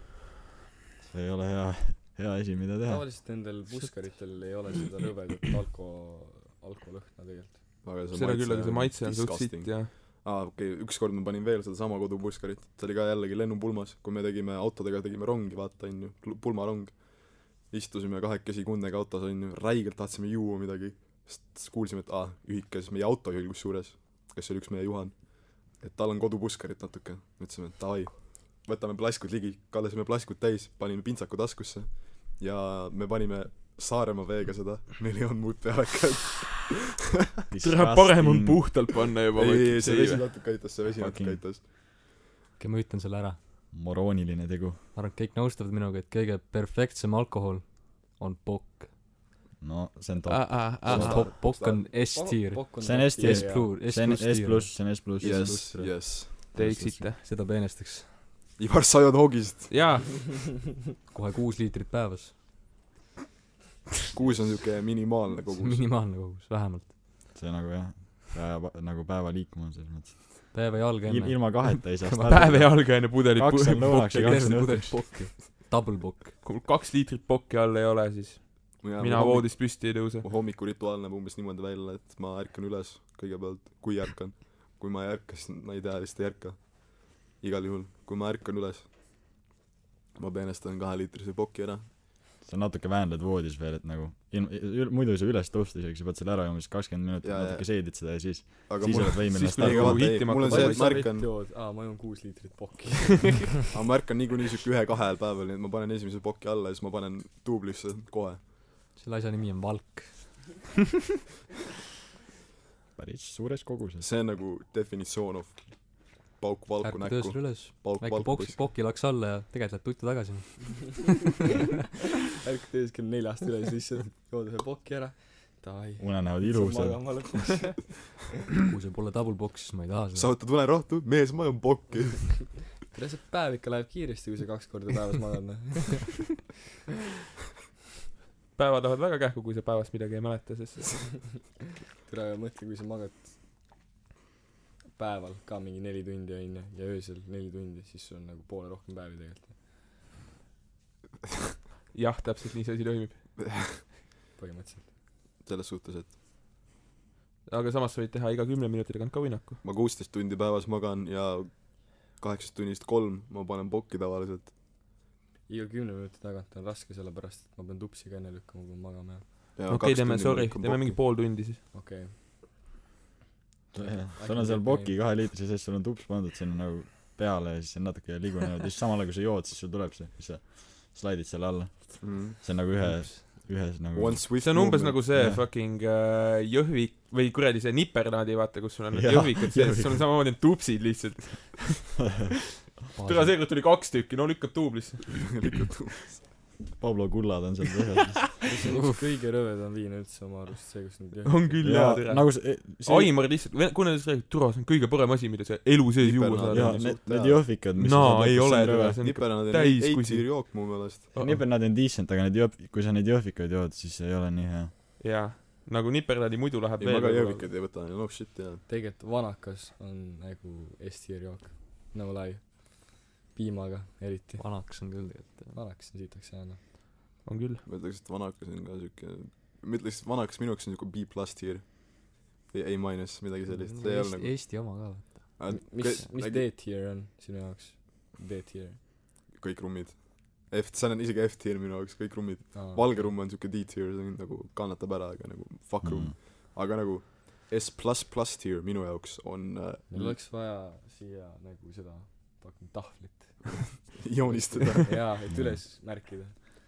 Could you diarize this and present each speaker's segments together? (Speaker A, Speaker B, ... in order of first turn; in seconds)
Speaker A: 1.1-3.1, 37.5-38.8, 40.9-41.4, 43.7-44.8, 49.6-51.3, 52.8-57.1, 67.3-75.2, 92.4-100.3, 113.0-114.0, 126.0-127.3, 173.7-184.5, 185.1-185.4, 188.9-190.0, 196.8-198.3, 201.6-203.1, 206.5-209.0, 211.2-214.7, 245.8-246.1, 255.3-255.6
Speaker B: 2.8-7.6, 51.6-53.7, 100.3-103.5, 122.3-128.2, 132.9-136.3, 142.0-143.3, 144.9-149.6, 154.4-154.9, 165.5-169.2, 171.7-172.1, 174.2-174.9, 198.4-201.6, 218.7-225.0, 225.5-226.6, 235.5-238.8, 242.5-242.8, 249.9-256.4
Speaker C: 7.8-36.9, 39.4-41.6, 50.9-51.8, 55.2-56.5, 58.6-60.0, 64.1-65.9, 78.8-88.9, 90.2-91.9, 97.2-101.3, 103.7-108.4, 114.0-118.7, 130.1-132.6, 153.5-153.8, 155.4-156.1, 159.6-164.5, 169.6-171.0, 182.0-182.6, 183.5-185.0, 195.2-196.2, 206.0-207.5, 209.0-211.1, 216.8-218.6, 227.6-234.8, 235.3-236.5, 239.3-250.2, 254.0-255.0
Speaker D: 8.1-9.9, 37.6-40.2, 50.3-51.3, 56.5-57.2, 59.7-60.3, 72.3-74.5, 76.4-80.2, 99.3-101.1, 138.6-141.4, 151.9-153.3, 157.5-159.6, 169.7-171.6, 184.4-192.1, 193.0-195.4, 201.2-206.9, 207.7-211.4, 215.0-217.5, 227.2-227.6
Speaker E: 42.6-43.4, 44.9-48.9, 50.8-55.5, 57.1-58.1, 61.1-62.3, 65.5-66.9, 70.5-72.6, 73.8-76.4, 108.9-110.5, 116.8-121.1, 128.7-130.3, 182.8-183.2, 192.9-193.4, 198.7-199.0, 224.4-225.6, 233.5-235.4